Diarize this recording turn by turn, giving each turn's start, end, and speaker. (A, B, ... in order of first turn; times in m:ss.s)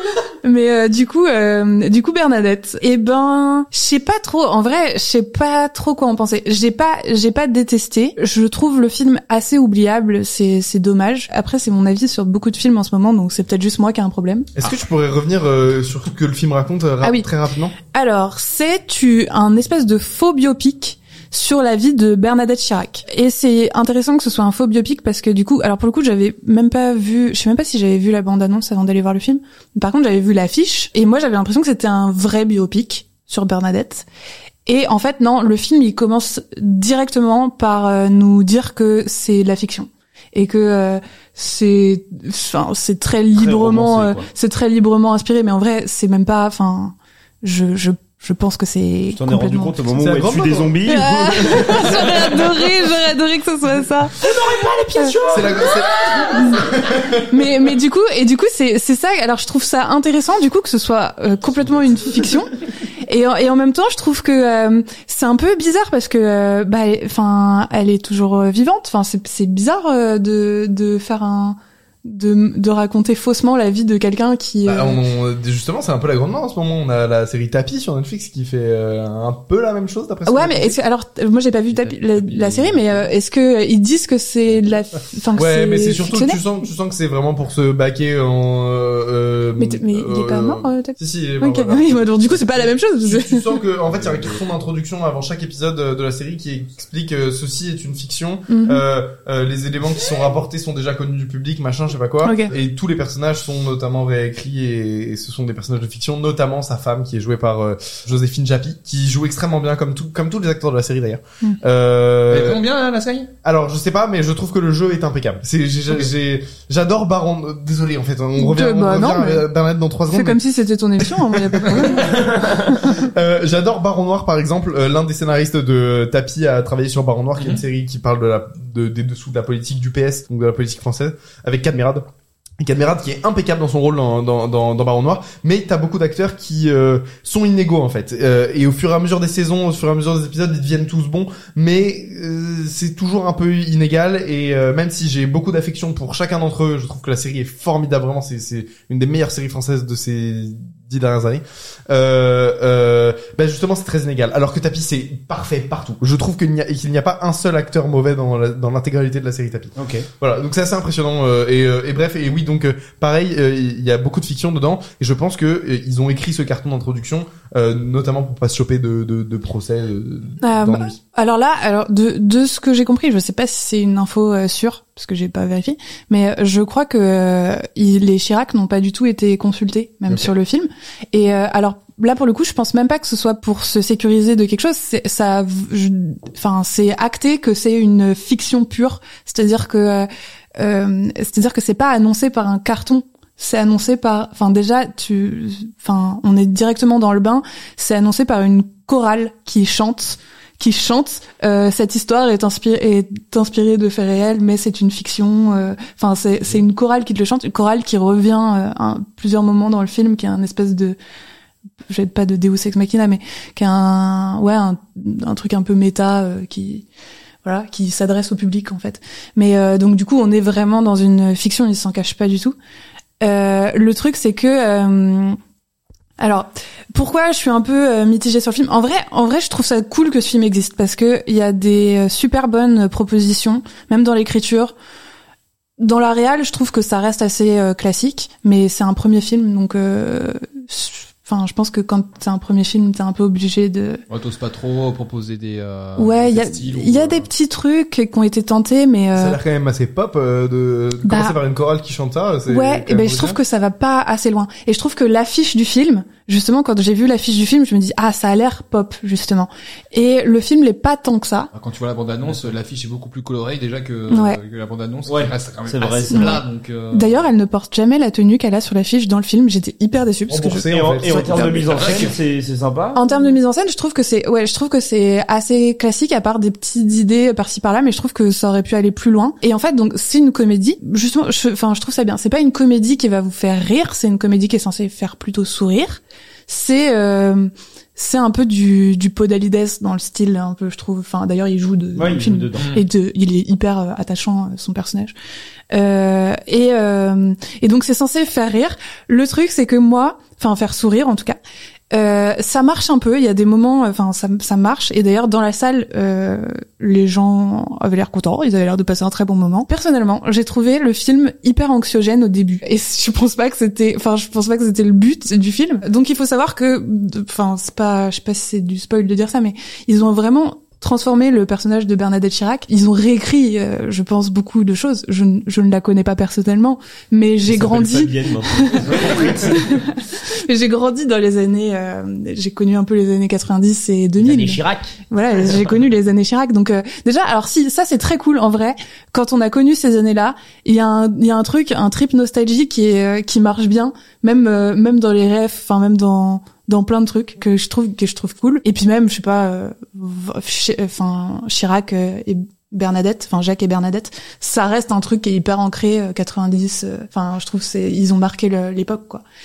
0:00.4-0:14.5 A
0:14.5-0:17.7 B
0:17.0-0:17.3 A
0:17.9-0:34.0 A
0:34.6-0:49.8 A
0:43.3-0:44.3 C
0:49.1-0:52.5 C
0:49.9-0:52.0 B
0:50.8-0:54.3 A
0:54.1-0:56.4 C
0:55.3-0:57.2 B
0:56.3-0:56.6 A
0:57.2-1:02.5 A
1:03.1-1:15.0 A
1:14.6-1:20.8 B
1:20.2-1:26.4 A
1:21.8-1:22.8 D
1:25.4-1:52.6 B
1:29.6-1:33.6 A
1:38.5-1:38.8 A
1:42.2-1:42.5 A
1:52.3-1:53.3 D
1:53.4-2:00.4 B
1:58.4-1:59.4 A
2:00.1-2:02.8 A
2:01.0-2:12.0 B
2:02.2-2:02.6 C
2:12.6-2:51.0 B
2:39.8-2:40.1 C
2:50.4-3:31.0 A
3:31.9-3:36.8 A
3:37.4-3:42.5 A
3:43.2-3:45.4 A
3:46.2-3:54.7 A
3:55.8-4:04.0 A
4:04.1-4:07.3 D
4:06.0-4:09.4 A
4:09.1-4:13.4 B
4:11.0-4:11.4 A
4:12.5-4:21.5 A
4:21.5-4:27.2 D
4:24.1-4:24.4 A
4:25.1-4:26.4 C
4:26.1-4:30.7 A
4:30.3-4:32.1 B
4:30.6-4:33.0 C
4:31.3-4:32.1 D
4:32.9-4:55.1 A
4:52.0-4:52.7 C
4:52.6-4:52.8 D
4:55.7-5:01.4 A
5:01.9-5:59.2 A
5:27.4-5:29.7 C
5:34.2-5:35.0 C